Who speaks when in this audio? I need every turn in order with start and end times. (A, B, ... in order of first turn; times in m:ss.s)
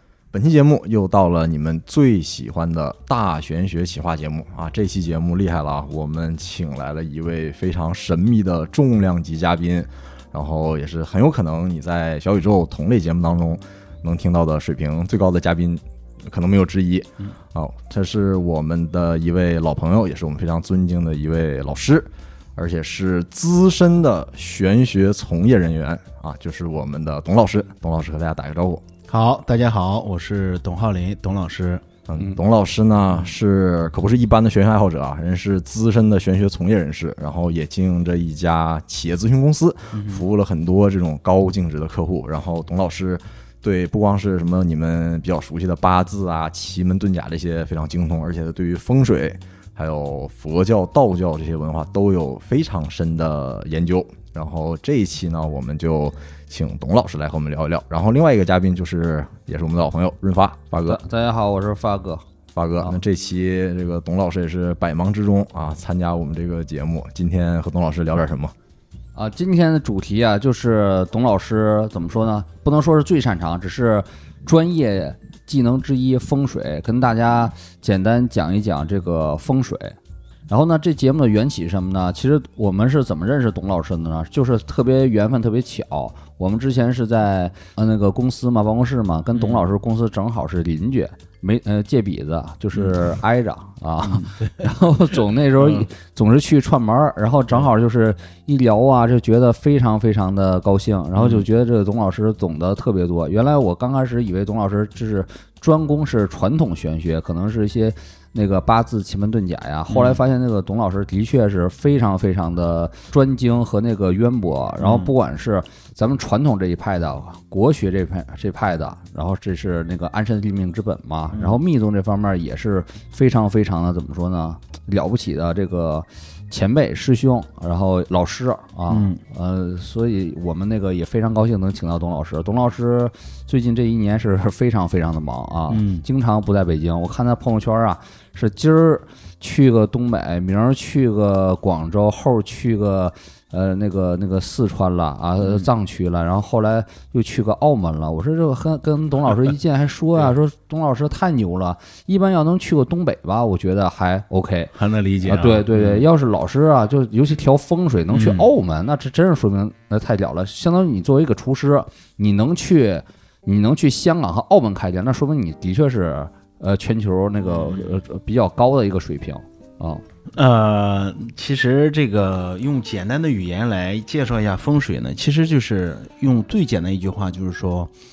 0:00.3-0:28.8 A
0:29.1-0:31.8 B
0:32.1-1:01.0 A
0:39.9-0:40.3 B
1:00.8-1:02.2 C
1:02.5-1:08.5 A
1:09.2-1:20.0 C
1:20.5-2:34.7 C
1:29.3-1:29.7 B
1:34.1-1:34.4 B
1:35.6-1:35.9 B
1:41.2-1:41.5 B
1:49.9-1:50.2 B
1:54.8-1:55.1 B
2:01.3-2:01.6 B
2:08.9-2:09.2 B
2:15.7-2:16.0 B
2:25.4-2:25.7 B
2:34.7-2:36.1 B
2:35.2-2:50.0 C
2:38.1-2:38.5 B
2:47.5-2:47.9 B
2:50.3-2:57.9 B